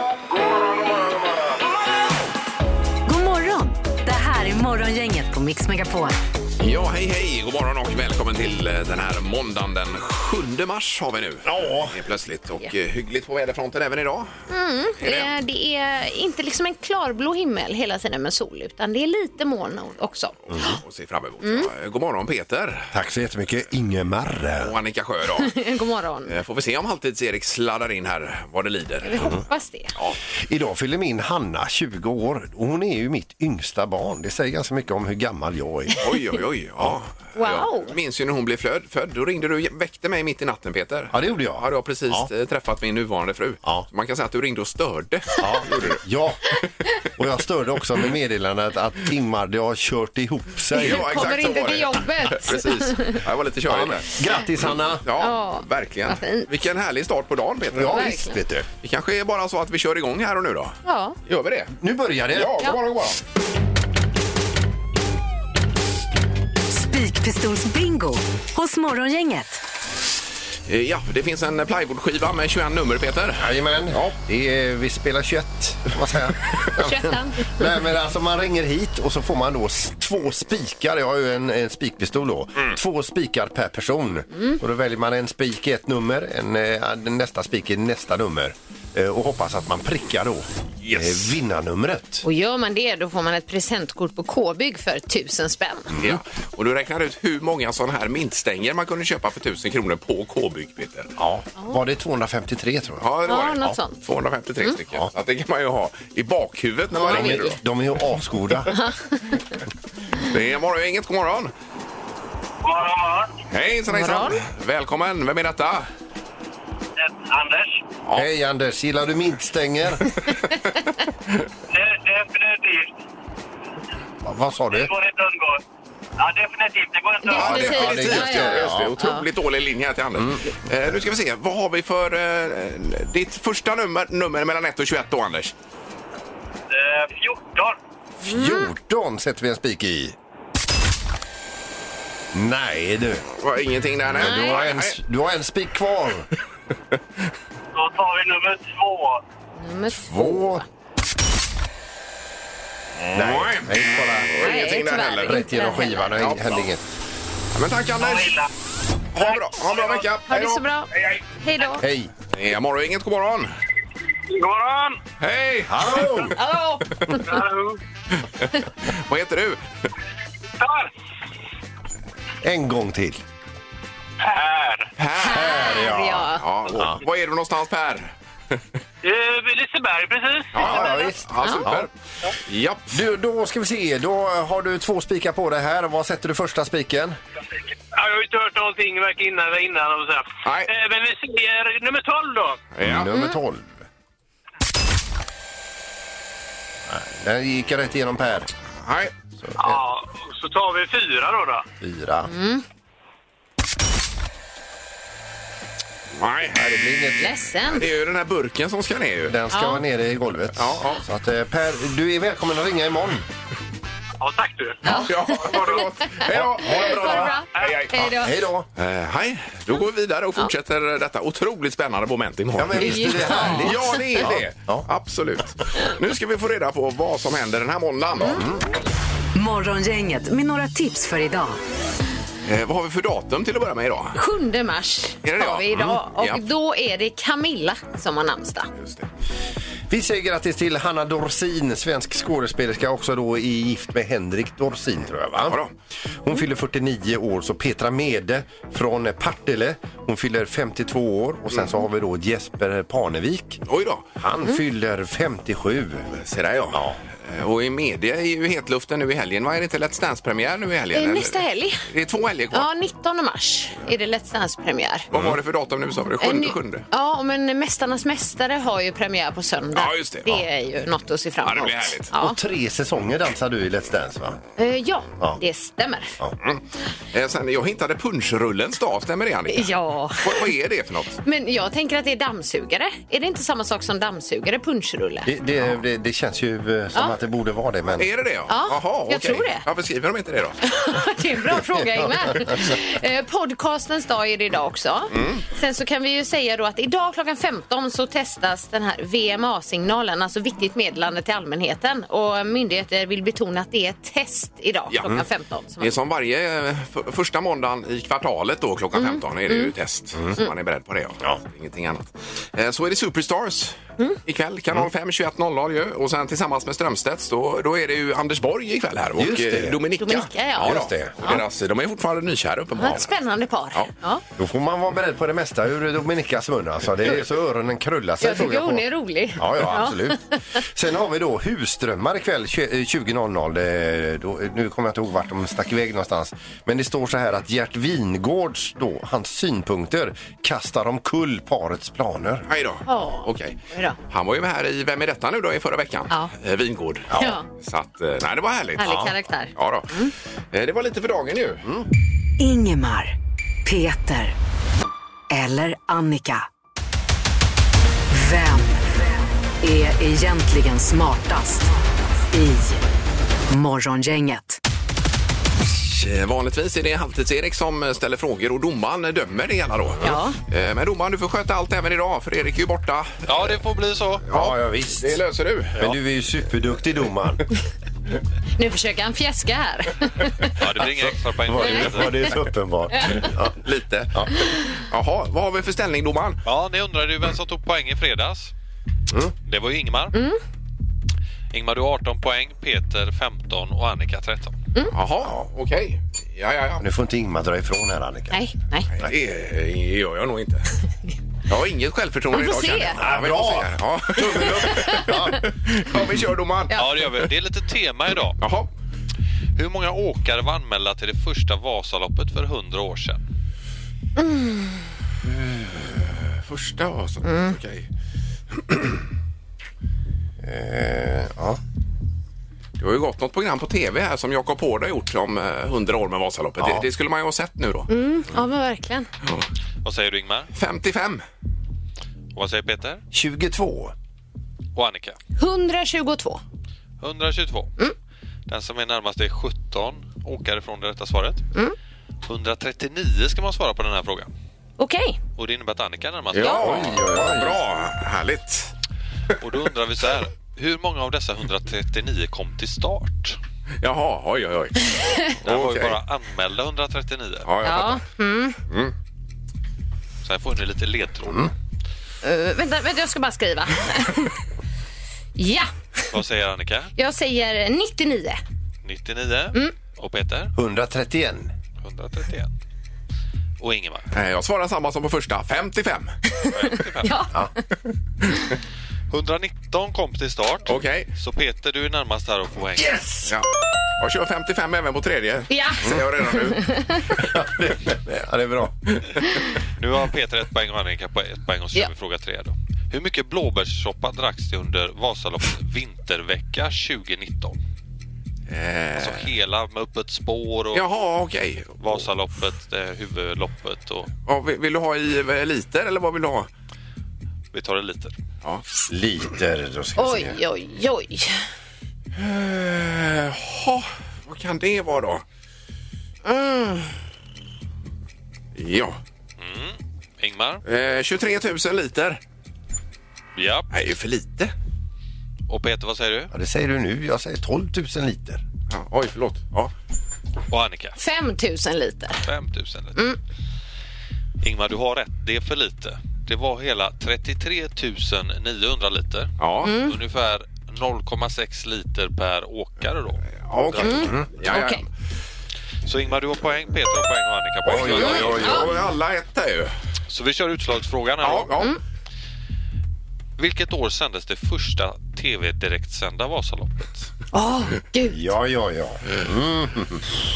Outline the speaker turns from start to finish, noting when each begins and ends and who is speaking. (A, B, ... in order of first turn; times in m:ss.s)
0:03.0-0:06.2 A
0:06.6-0:14.3 B
0:11.4-0:11.9 C
0:14.5-0:20.8 D
0:15.0-0:15.3 B
0:20.5-0:20.8 C
0:20.5-0:22.9 B
0:21.4-0:21.7 D
0:22.9-0:24.7 C
0:24.6-0:25.6 B
0:25.4-0:26.3 D
0:26.3-0:29.3 B
0:29.0-0:29.9 D
0:30.4-0:36.0 C
0:36.0-0:46.0 B
0:37.4-0:37.9 D
0:41.1-0:42.3 C
0:45.4-0:46.5 C
0:47.2-0:51.1 C
0:50.7-0:53.2 D
0:50.7-0:58.2 B
0:53.6-0:55.0 C
0:55.2-0:56.5 D
0:57.7-0:58.7 C
0:57.9-0:58.4 D
0:58.8-1:01.7 B
1:00.8-1:01.2 D
1:01.8-1:02.6 C
1:02.3-1:03.2 B
1:06.7-1:09.6 A
1:10.7-1:14.2 B
1:13.4-1:32.2 C
1:16.8-1:17.6 D
1:24.3-1:24.6 D
1:30.8-1:31.4 B
1:32.2-1:35.9 D
1:35.9-1:36.2 C
1:36.0-1:41.1 B
1:41.2-1:43.1 C
1:43.0-1:47.6 B
1:43.2-1:44.0 D
1:46.9-1:47.5 D
1:47.0-1:48.7 C
1:48.7-1:49.4 D
1:50.2-1:51.5 B
1:52.6-1:53.4 E
1:53.5-1:55.9 B
1:53.9-1:54.4 D
1:57.0-1:57.8 E
1:58.1-2:00.0 C
2:01.7-2:02.9 E
2:04.2-2:04.9 C
2:04.7-2:05.6 E
2:06.2-2:07.4 E
2:07.2-2:09.2 D
2:07.4-2:15.5 B
2:07.4-2:09.1 C
2:10.2-2:10.4 C
2:16.7-2:17.8 E
2:18.2-2:20.2 C
2:18.3-2:18.7 D
2:22.3-2:23.2 C
2:23.3-2:24.9 B
2:24.1-2:26.3 C
2:24.2-2:24.6 D
2:27.7-2:29.2 E
2:29.6-2:30.6 D
2:30.1-2:30.6 C
2:33.0-2:35.4 B
2:33.1-2:36.9 C
2:34.4-2:36.1 D
2:36.1-2:36.7 B
2:37.5-2:38.4 B
2:38.0-2:38.5 E
2:39.1-2:41.2 B
2:39.5-2:40.0 E
2:40.3-2:40.9 D
2:41.4-2:41.8 D
2:41.8-2:42.1 C
2:42.3-2:43.5 B
2:44.3-2:45.0 E
2:45.2-2:46.3 B
2:45.6-2:46.4 C
2:46.4-2:47.4 D
2:47.2-2:47.8 E
2:48.4-2:49.6 B
2:50.6-2:50.9 E
2:52.4-2:53.2 C
2:54.2-2:54.9 E
2:55.0-2:58.1 B
2:55.2-2:56.4 D
2:55.2-2:57.0 C
2:59.0-3:00.7 E
3:00.5-3:01.9 B
3:00.6-3:01.9 C
3:00.7-3:01.7 D
3:02.4-3:03.0 B
3:02.9-3:07.2 C
3:07.9-3:12.6 E
3:10.4-3:10.7 B
3:12.7-3:13.1 B
3:12.8-3:13.7 C
3:16.9-3:18.5 C
3:18.8-3:19.1 B
3:19.4-3:19.8 C
3:19.6-3:21.6 E
3:21.8-3:22.3 C
3:22.3-3:22.6 D
3:26.1-3:26.6 B
3:26.5-3:27.3 C
3:27.2-3:27.9 D
3:27.7-3:29.4 B
3:29.3-3:33.2 C
3:29.5-3:29.8 D
3:30.6-3:31.0 B
3:34.2-3:35.0 E
3:34.8-3:38.3 D
3:34.9-3:37.9 B
3:36.3-3:37.3 C
3:37.9-3:38.7 C
3:38.8-3:48.4 B
3:42.6-3:44.8 C
3:42.8-3:44.0 D
3:48.2-3:48.6 C
3:49.3-3:51.6 A
3:52.4-3:54.2 B
3:54.1-3:58.7 D
3:55.2-3:56.4 B
3:59.9-4:05.6 C
4:05.4-4:05.7 B
4:06.2-4:13.6 C
4:13.7-4:14.1 B
4:14.2-4:16.1 C
4:16.1-4:22.7 B
4:16.7-4:17.0 C
4:20.9-4:21.8 D
4:22.5-4:25.1 D
4:25.1-4:26.8 B
4:25.1-4:25.4 C
4:26.2-4:32.4 D
4:29.7-4:30.4 B
4:31.4-4:32.1 B
4:32.1-4:34.4 C
4:34.6-4:36.2 D
4:37.1-4:41.2 B
4:39.5-4:40.5 D
4:41.2-4:45.3 D
4:45.2-4:48.1 C
4:48.0-4:50.6 B
4:48.5-4:49.6 D
4:50.6-5:05.9 D
4:55.1-4:55.4 B
5:05.8-5:23.1 B
5:09.0-5:09.7 D
5:19.2-5:19.8 C
5:20.0-5:21.4 D
5:20.6-5:21.4 C
5:22.8-5:24.2 D
5:24.4-5:42.5 C
5:28.2-5:30.4 D
5:42.5-5:51.6 B
5:42.9-5:44.0 D
5:47.1-5:47.4 C
5:47.2-5:47.4 D
5:48.8-5:50.1 D
5:52.4-5:54.3 A
5:55.3-5:56.4 A
5:58.1-5:58.8 A
5:59.6-6:01.7 A
6:02.3-6:02.8 A
6:03.5-6:04.6 A
6:05.6-6:13.3 B
6:10.0-6:10.4 D
6:13.2-6:14.2 F
6:14.3-6:15.2 C
6:14.3-6:15.8 B
6:15.8-6:17.4 C
6:18.6-6:20.5 D
6:20.6-6:22.3 F
6:20.8-6:23.6 C
6:23.2-6:26.4 B
6:26.4-6:28.5 F
6:29.4-6:30.3 F
6:30.1-6:30.4 D
6:31.5-6:34.5 F
6:34.9-6:36.8 B
6:36.8-6:38.5 C
6:38.3-6:38.9 D
6:38.9-6:40.7 B
6:41.5-6:47.3 B
6:42.3-6:43.0 D
6:43.0-6:45.4 C
6:44.7-6:45.1 D
6:46.7-6:48.4 F
6:48.4-6:48.7 B
6:49.6-6:53.2 F
6:54.2-6:54.5 D
6:55.3-6:57.9 B
6:57.2-6:57.5 D
6:58.7-6:58.9 B
7:00.4-7:01.6 C
7:02.8-7:07.9 B
7:06.6-7:06.8 C
7:07.9-7:09.1 D
7:09.8-7:10.5 F
7:10.5-7:11.2 B
7:12.3-7:13.0 F
7:13.1-7:13.9 C
7:14.7-7:15.2 F
7:15.4-7:16.4 D
7:17.0-7:17.7 F
7:18.5-7:21.4 F
7:22.2-7:24.3 F
7:24.8-7:25.2 D
7:25.4-7:27.0 F
7:26.3-7:28.7 B
7:26.4-7:27.6 C
7:29.4-7:33.4 F
7:33.8-7:36.0 B
7:35.4-7:37.5 F
7:37.5-7:38.0 B
7:37.6-7:38.6 D
7:40.2-7:41.5 F
7:42.2-7:44.4 D
7:45.4-7:45.7 D
7:46.1-7:46.9 F
7:47.0-7:48.4 D
7:48.8-7:50.5 F
7:50.6-7:51.5 C
7:51.8-7:52.5 F
7:53.6-7:54.1 F
7:54.1-7:56.1 B
7:56.4-7:57.3 D
7:56.5-7:57.2 F
7:59.1-8:03.0 F
8:00.7-8:01.1 B
8:02.8-8:03.3 C
8:04.0-8:06.7 B
8:05.5-8:07.0 D
8:07.2-8:08.8 C
8:09.8-8:17.6 F
8:18.5-8:19.2 B
8:19.0-8:20.8 F
8:20.7-8:22.0 B
8:21.8-8:24.1 F
8:24.3-8:26.5 B
8:27.5-8:28.1 F
8:28.9-8:30.4 C
8:30.0-8:31.4 D
8:32.2-8:35.2 B
8:36.2-8:36.9 D
8:38.5-8:39.0 B
8:39.4-8:40.6 F
8:40.6-8:42.2 B
8:43.4-8:43.7 F
8:43.7-8:44.5 B
8:45.5-8:46.3 F
8:46.3-8:48.4 C
8:48.7-8:49.7 B
8:50.5-8:51.0 F
8:51.0-8:52.2 D
8:52.2-8:53.0 F
8:54.4-9:04.2 F
8:59.4-8:59.7 B
8:59.6-8:59.9 D
9:03.4-9:04.8 B
9:03.8-9:04.8 D
9:05.8-9:08.6 F
9:07.6-9:08.8 C
9:07.6-9:09.7 B
9:10.1-9:11.6 F
9:11.2-9:11.7 B
9:13.4-9:17.1 F
9:17.3-9:18.2 D
9:18.1-9:20.0 C